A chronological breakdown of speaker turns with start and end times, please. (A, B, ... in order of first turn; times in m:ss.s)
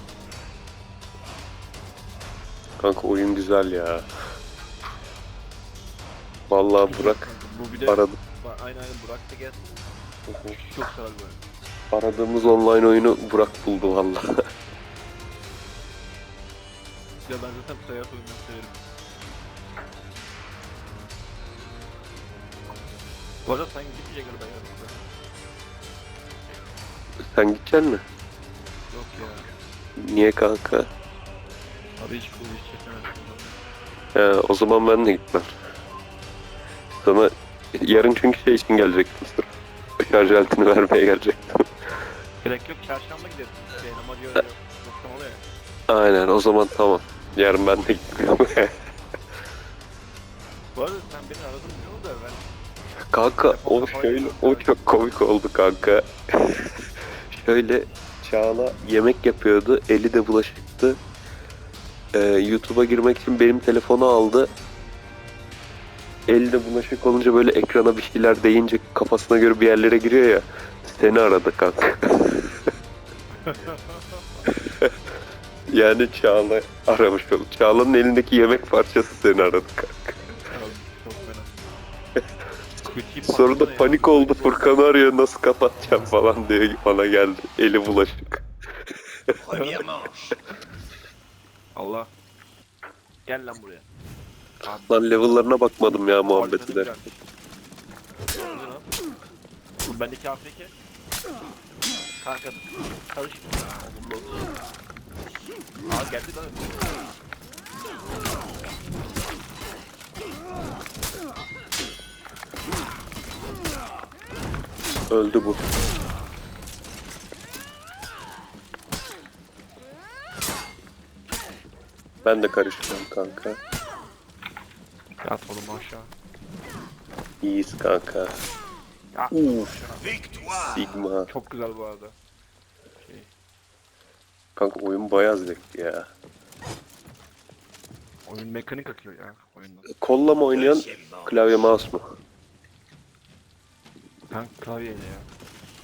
0:02.8-0:04.1 A
0:06.5-0:07.2 A
0:06.8-0:09.9 B
0:07.8-0:08.2 A
0:10.3-0:10.6 A
0:10.5-0:11.4 B
0:11.9-0:14.3 A
0:17.2-0:18.8 B
0:23.4-0:25.1 B
0:27.3-0:28.0 A
0:28.9-0:29.5 B
0:30.0-0:30.9 A
0:32.0-0:33.6 B
0:34.1-0:35.5 A
0:37.0-0:39.5 A
0:40.0-0:41.6 A
0:42.4-0:45.4 B
0:45.9-0:48.8 A
0:50.7-0:52.5 B
0:53.1-0:56.7 A
0:53.4-0:54.7 B
0:57.3-1:01.0 A
1:02.1-1:04.5 A
1:06.3-1:12.6 A
1:13.4-1:14.4 B
1:15.7-1:20.2 A
1:20.3-1:21.7 B
1:22.8-1:24.7 B
1:23.2-1:28.4 A
1:29.5-1:30.1 B
1:31.8-1:32.1 B
1:33.2-1:33.9 B
1:34.6-1:37.2 B
1:34.9-1:36.9 A
1:38.3-1:38.9 B
1:39.8-1:40.7 B
1:42.2-1:44.4 B
1:45.9-1:47.0 B
1:55.1-1:55.7 A
2:02.2-2:03.6 A
2:05.2-2:06.1 B
2:07.4-2:08.3 A
2:09.1-2:10.2 B
2:09.3-2:09.6 A
2:10.6-2:11.3 A
2:11.3-2:12.1 B
2:13.0-2:13.3 B
2:14.6-2:16.1 A
2:18.3-2:19.9 B
2:20.0-2:22.0 A
2:24.3-2:25.3 B